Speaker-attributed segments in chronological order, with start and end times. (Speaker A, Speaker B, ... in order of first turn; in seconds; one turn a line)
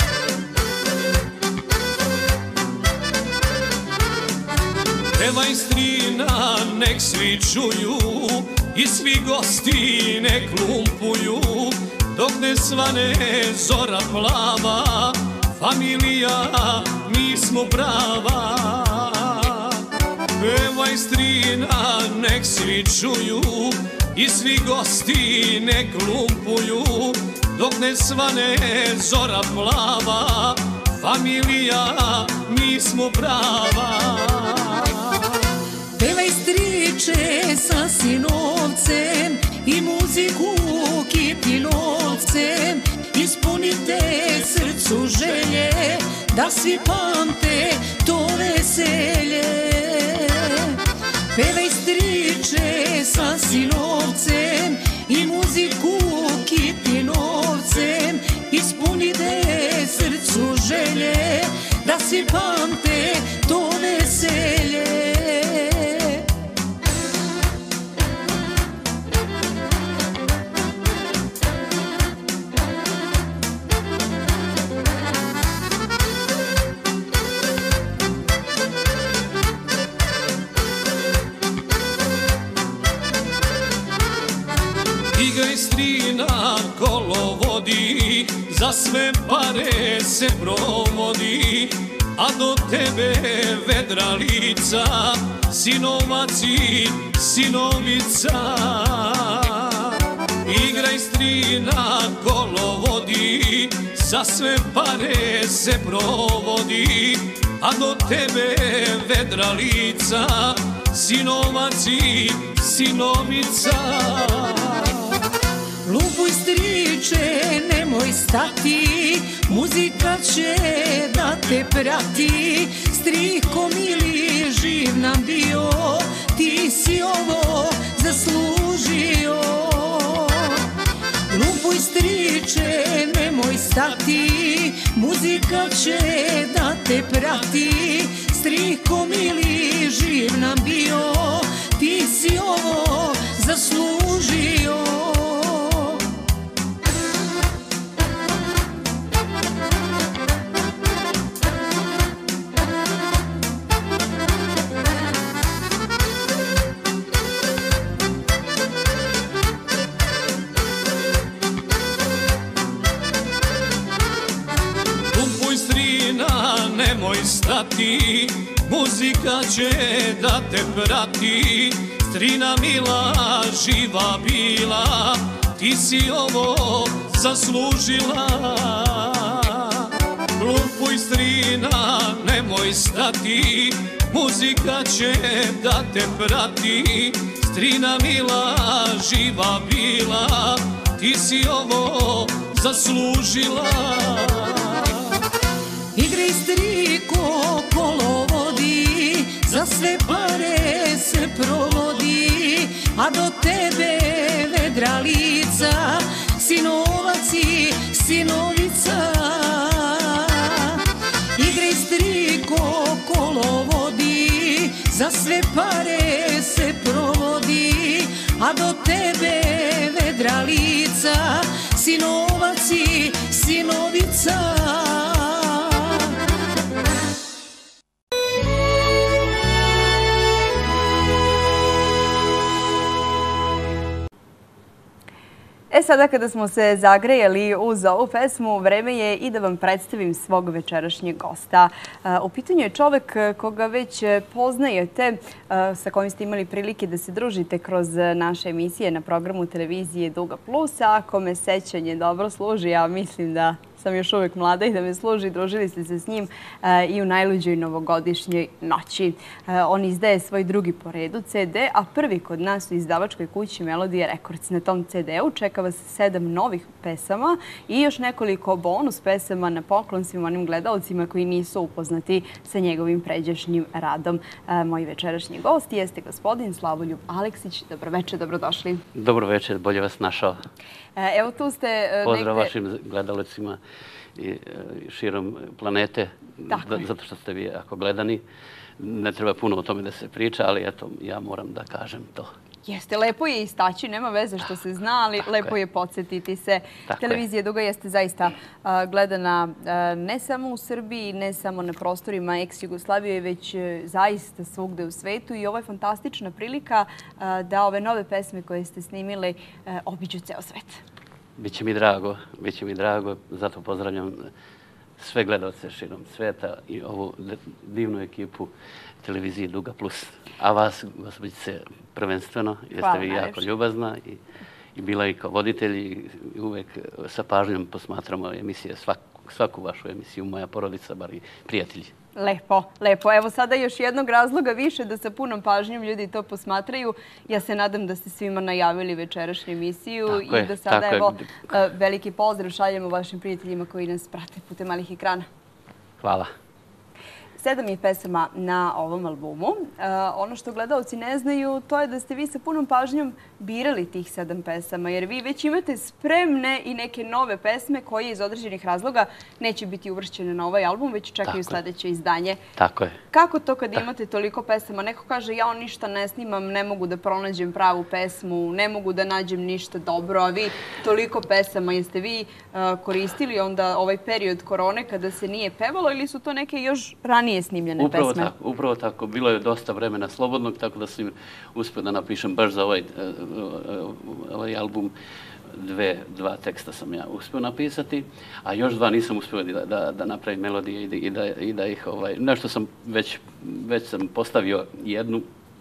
Speaker A: 5.2-19.8
Speaker A: 20.4-35.4
Speaker B: 36.0-50.8
Speaker B: 51.3-66.3
Speaker A: 85.1-115.2
Speaker B: 115.8-130.7
Speaker B: 131.3-146.0
Speaker A: 165.1-195.2
Speaker B: 195.9-210.8
Speaker B: 211.4-226.0
Speaker C: 235.7-278.9
Speaker D: 278.9-280.4
Speaker C: 281.0-282.5
Speaker D: 282.0-283.6
Speaker D: 284.1-288.2
Speaker C: 286.5-286.8
Speaker D: 288.8-292.3
Speaker C: 292.7-310.8
Speaker D: 296.9-297.2
Speaker D: 311.4-314.3
Speaker D: 315.0-318.5
Speaker D: 319.0-324.2
Speaker C: 322.8-323.4
Speaker D: 324.8-331.9
Speaker C: 332.2-345.3
Speaker D: 340.1-341.2
Speaker D: 346.0-346.3
Speaker C: 347.4-362.4
Speaker D: 361.3-361.6
Speaker D: 362.6-363.0
Speaker C: 363.1-378.3
Speaker D: 377.8-384.9
Speaker D: 385.5-395.3